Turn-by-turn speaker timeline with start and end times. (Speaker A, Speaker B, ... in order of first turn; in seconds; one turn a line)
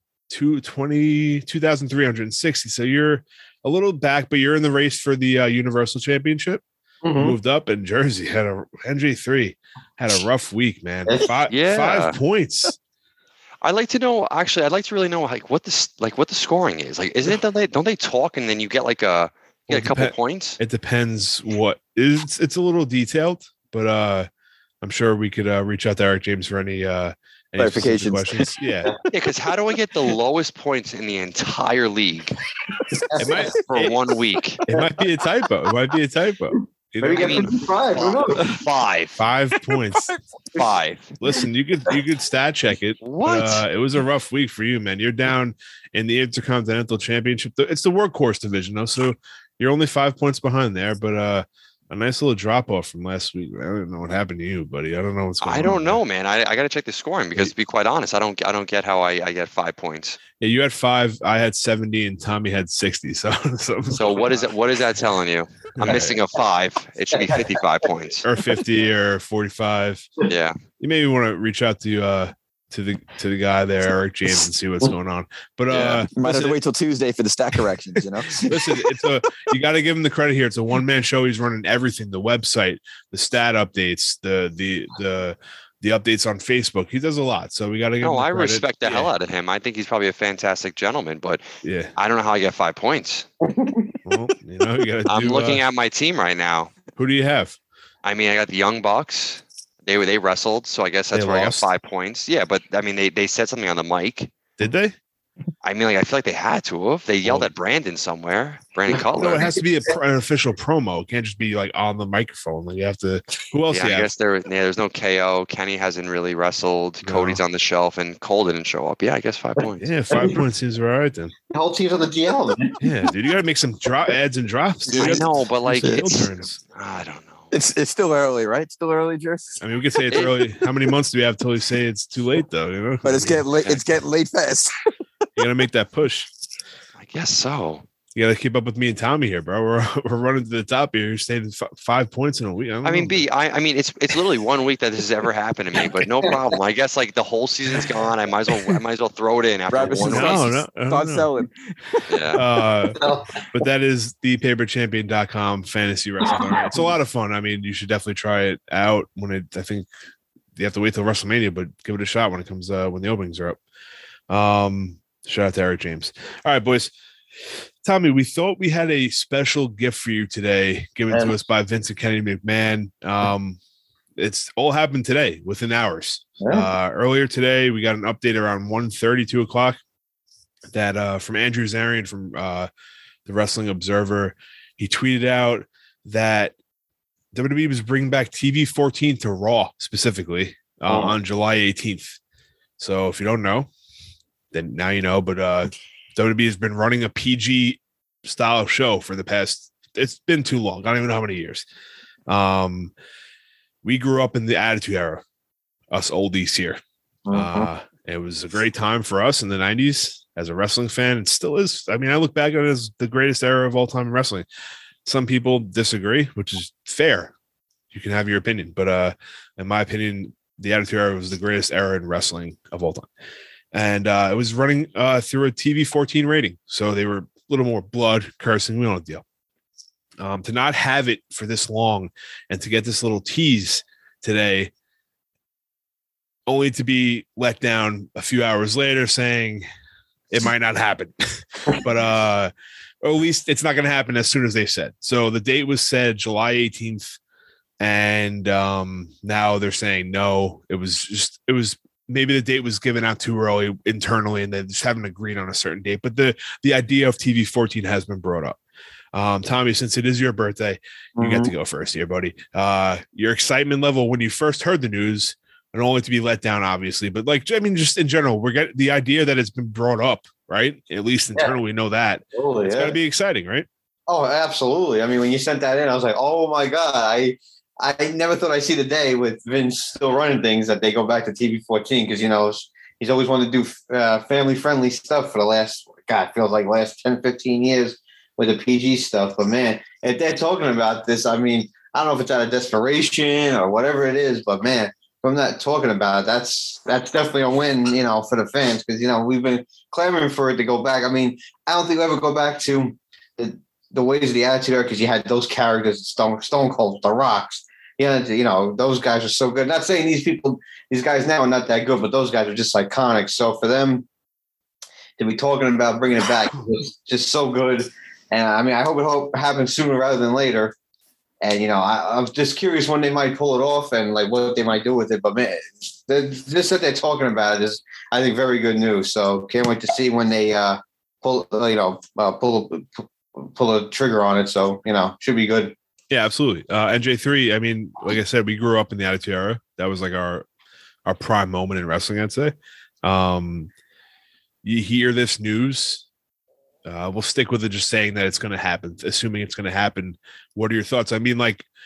Speaker A: 0.3-6.6
Speaker B: 7.0-7.4
Speaker A: 7.2-12.8
Speaker C: 11.5-12.2
Speaker C: 13.6-20.6
Speaker A: 19.7-24.3
Speaker A: 24.8-28.9
Speaker D: 27.6-28.5
Speaker C: 29.1-32.4
Speaker B: 32.9-33.5
Speaker A: 33.2-34.0
Speaker C: 33.2-34.6
Speaker A: 34.7-37.7
Speaker B: 37.0-38.6
Speaker C: 37.1-39.2
Speaker A: 39.2-40.1
Speaker C: 40.5-41.2
Speaker A: 41.2-56.0
Speaker C: 43.0-43.6
Speaker C: 55.4-60.2
Speaker A: 60.4-64.5
Speaker C: 63.9-68.2
Speaker A: 65.8-66.2
Speaker A: 68.2-70.1
Speaker C: 70.3-70.6
Speaker A: 70.8-76.6
Speaker C: 75.7-76.0
Speaker D: 76.2-79.0
Speaker A: 78.4-89.1
Speaker C: 88.0-91.4
Speaker A: 91.6-91.9
Speaker C: 92.0-93.3
Speaker B: 93.5-94.0
Speaker A: 94.1-95.6
Speaker C: 95.1-96.7
Speaker A: 97.0-97.6
Speaker C: 98.0-104.3
Speaker A: 101.1-101.7
Speaker A: 104.6-104.9
Speaker C: 105.6-109.6
Speaker A: 107.2-107.5
Speaker A: 109.2-114.1
Speaker C: 113.7-119.9
Speaker A: 117.0-117.4
Speaker A: 119.8-121.3
Speaker B: 120.1-120.4
Speaker B: 121.5-122.8
Speaker A: 122.8-126.6
Speaker C: 124.9-127.5
Speaker D: 125.8-126.2
Speaker D: 127.5-130.0
Speaker A: 129.6-133.4
Speaker D: 133.0-134.7
Speaker A: 135.4-136.3
Speaker C: 137.0-137.9
Speaker A: 138.2-143.2
Speaker C: 142.8-150.5
Speaker D: 149.7-152.6
Speaker A: 150.0-151.3
Speaker C: 152.1-152.4
Speaker A: 152.3-153.0
Speaker B: 152.9-153.4
Speaker A: 153.5-159.9
Speaker B: 156.3-156.8
Speaker A: 160.6-163.6
Speaker A: 164.3-166.9
Speaker A: 167.8-173.6
Speaker A: 174.2-179.8
Speaker B: 176.4-176.7
Speaker A: 180.7-182.7
Speaker A: 183.3-186.6
Speaker A: 187.3-192.2
Speaker B: 190.9-191.2
Speaker A: 192.8-193.7
Speaker A: 194.5-201.6
Speaker A: 202.3-202.9
Speaker A: 203.8-205.2
Speaker A: 205.9-206.8
Speaker B: 207.3-207.7
Speaker A: 207.3-214.5
Speaker A: 215.1-217.3
Speaker A: 217.9-223.1
Speaker A: 223.7-229.2
Speaker A: 230.2-234.7
Speaker A: 236.5-239.6
Speaker A: 240.3-242.5
Speaker A: 243.0-247.2
Speaker A: 247.8-258.6
Speaker A: 259.1-273.7
Speaker B: 261.2-261.5
Speaker B: 272.4-272.9
Speaker B: 274.1-314.1
Speaker B: 315.2-320.7
Speaker B: 321.4-335.7
Speaker A: 336.1-340.5
Speaker A: 341.1-343.7
Speaker A: 344.6-346.1
Speaker A: 346.9-351.6